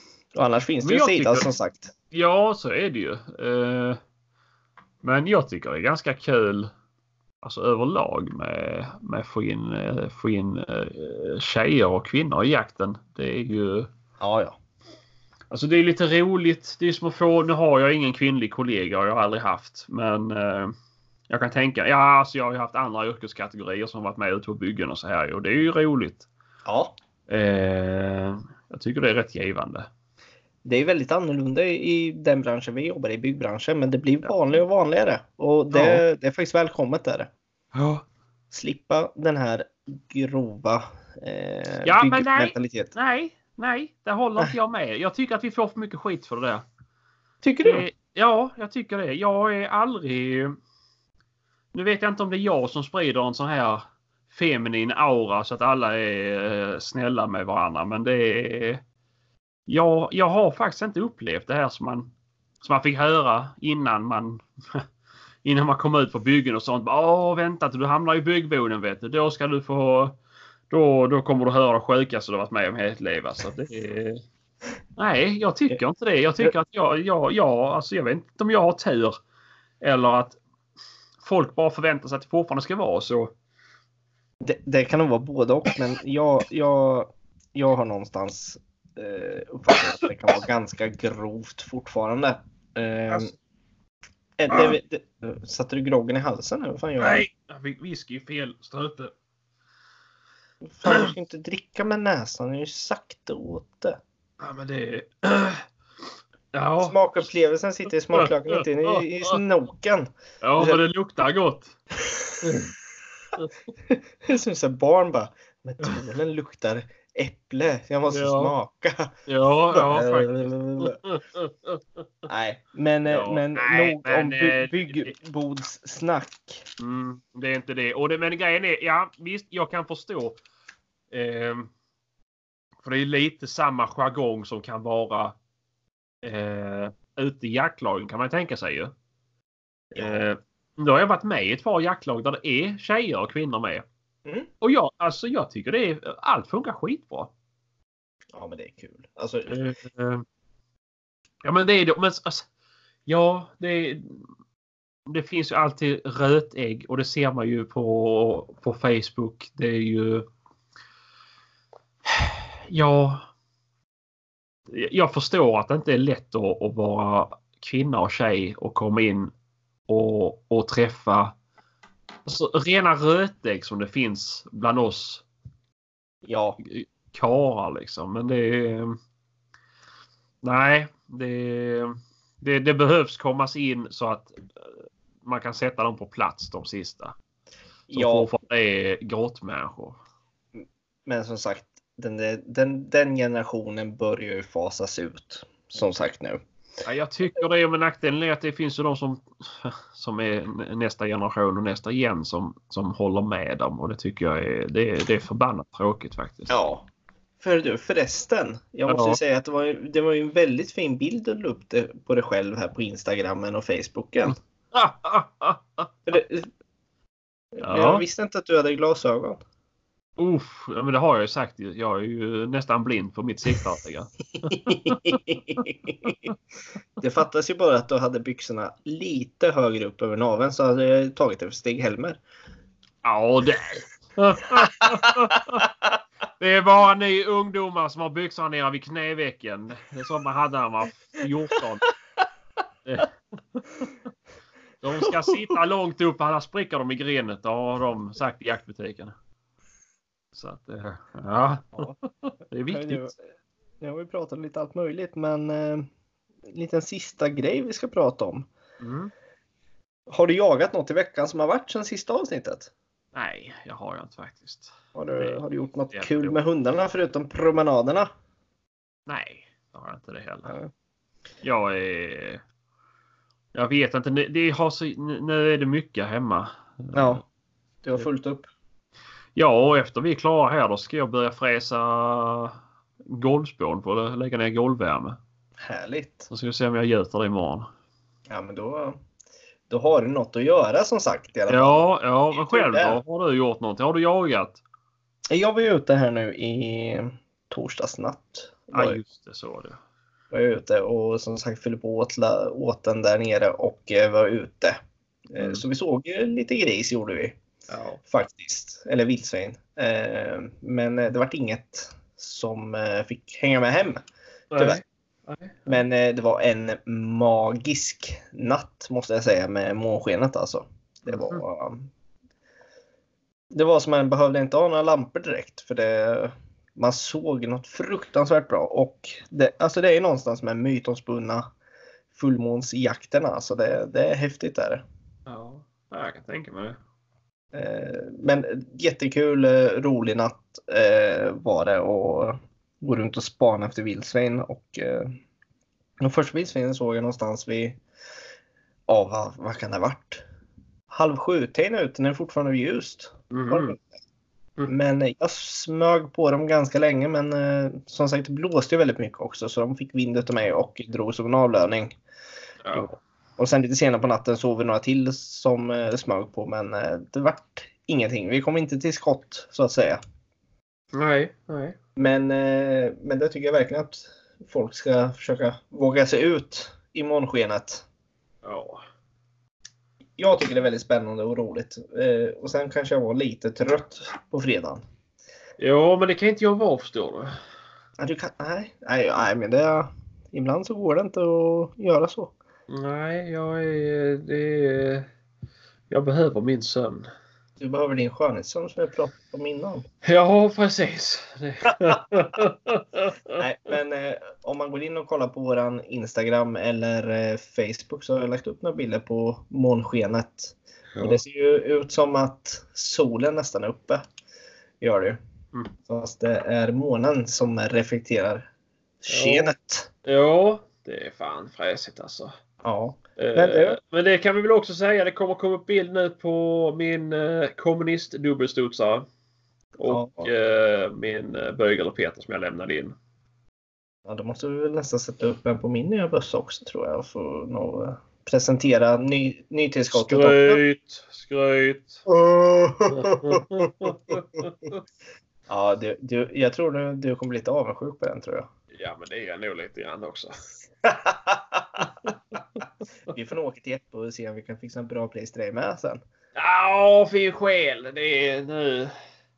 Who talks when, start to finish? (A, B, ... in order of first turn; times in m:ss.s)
0:00.4-0:01.9 A
0:00.8-0:01.5 B
0:02.1-0:04.0 B
0:05.0-0:06.7 B
0:07.4-0:13.9 B
0:14.2-0:14.6 A
0:15.5-0:20.7 B
0:21.3-0:26.3 B
0:26.7-0:26.9 A
0:27.3-0:29.9 B
0:30.6-0:37.3 A
0:35.7-0:36.0 B
0:37.7-0:38.0 B
0:38.5-0:42.9 A
0:41.8-0:46.7 B
0:47.4-0:47.9 A
0:47.6-0:50.6 B
0:51.7-0:58.8 B
0:59.7-1:04.9 B
1:05.4-1:10.2 B
1:10.7-1:14.2 B
1:15.0-1:19.2 B
1:19.8-1:20.4 B
1:21.2-1:23.3 B
1:24.4-1:33.3 A
1:34.4-1:37.2 A
1:34.5-1:34.8 B
1:37.0-1:39.1 B
1:40.7-1:44.0 A
1:40.9-1:41.1 B
1:44.4-1:45.7 B
1:46.5-1:47.0 B
1:46.8-1:50.8 A
1:48.1-1:49.4 B
1:50.4-1:51.8 B
1:53.9-1:59.1 A
1:58.1-1:58.6 B
1:59.3-2:02.0 B
1:59.7-2:01.0 A
2:02.3-2:06.7 A
2:03.1-2:05.1 B
2:06.8-2:10.4 B
2:11.1-2:11.7 B
2:12.8-2:15.4 B
2:16.2-2:18.9 B
2:19.9-2:23.9 B
2:20.0-2:20.2 A
2:24.6-2:27.3 B
2:28.3-2:29.6 A
2:29.5-2:30.2 B
2:31.4-2:32.5 B
2:33.1-2:34.2 B
2:35.1-2:40.3 B
2:42.0-2:43.3 B
2:44.7-2:49.3 B
2:49.9-2:51.4 B
2:52.3-2:55.2 B
2:56.2-2:56.6 A
2:56.6-2:59.0 B
3:00.4-3:07.2 B
3:07.9-3:10.0 B
3:07.9-3:08.3 A
3:10.6-3:16.4 A
3:16.8-3:26.6 B
3:26.5-3:26.9 A
3:27.4-3:34.4 A
3:28.9-3:29.2 B
3:34.7-3:35.9 B
3:36.1-3:36.5 A
3:37.6-3:39.4 A
3:37.6-3:38.0 B
3:40.2-3:46.3 B
3:44.5-3:46.2 A
3:47.0-3:52.2 A
3:53.0-3:55.7 B
3:54.8-3:55.7 A
3:56.4-4:01.9 B
4:02.8-4:03.9 B
4:04.8-4:09.2 B
4:05.0-4:05.4 A
4:10.3-4:13.1 B
4:12.7-4:13.2 A
4:13.8-4:15.9 A
4:16.5-4:18.5 A
4:18.8-4:19.1 B
4:20.1-4:22.7 A
4:23.1-4:26.4 B
4:25.0-4:28.1 A
4:29.1-4:30.6 B
4:31.4-4:32.4 B
4:33.5-4:37.2 B
4:36.9-4:37.2 A
4:37.8-4:38.5 A
4:39.4-4:45.2 B
4:45.6-4:46.3 A
4:46.3-4:47.7 B
4:48.3-4:49.0 A
4:49.7-4:53.0 A
4:51.5-4:54.6 B
4:55.3-4:59.0 A
4:58.7-4:59.8 B
5:00.3-5:04.8 A
5:05.3-5:07.4 A
5:07.7-5:08.0 B
5:08.1-5:14.0 A
5:14.5-5:15.7 B
5:15.7-5:21.9 A
5:21.1-5:21.4 B
5:23.5-5:31.4 A
5:32.1-5:34.8 A
5:35.3-5:36.8 B
5:37.5-5:45.2 A
5:46.0-5:47.8 A
5:48.9-5:50.2 A
5:50.9-5:53.8 A
5:53.3-5:53.8 B
5:54.7-6:02.0 A
6:02.6-6:02.9 B
6:02.8-6:10.0 A
6:10.9-6:11.8 B
6:12.0-6:17.8 A
6:18.4-6:18.8 B
6:20.2-6:24.8 A
6:25.6-6:27.3 B
6:28.0-6:32.3 A
6:32.7-6:35.1 B
6:35.9-6:37.1 B
6:37.6-6:39.8 A
6:40.0-6:43.4 B
6:43.4-6:54.0 A
6:51.0-6:51.2 B
6:54.8-6:55.2 A
6:55.9-6:58.5 A
6:59.0-6:59.9 A
6:59.1-6:59.5 B
7:00.0-7:02.4 B
7:02.6-7:03.8 A
7:03.2-7:09.1 B
7:09.8-7:13.0 B
7:09.9-7:10.3 A
7:14.1-7:20.6 A
7:19.9-7:22.1 B
7:22.1-7:24.5 A
7:22.9-7:24.8 B
7:25.5-7:28.5 A
7:28.7-7:30.3 B
7:30.8-7:31.9 A
7:33.1-7:36.0 A
7:36.4-7:39.0 B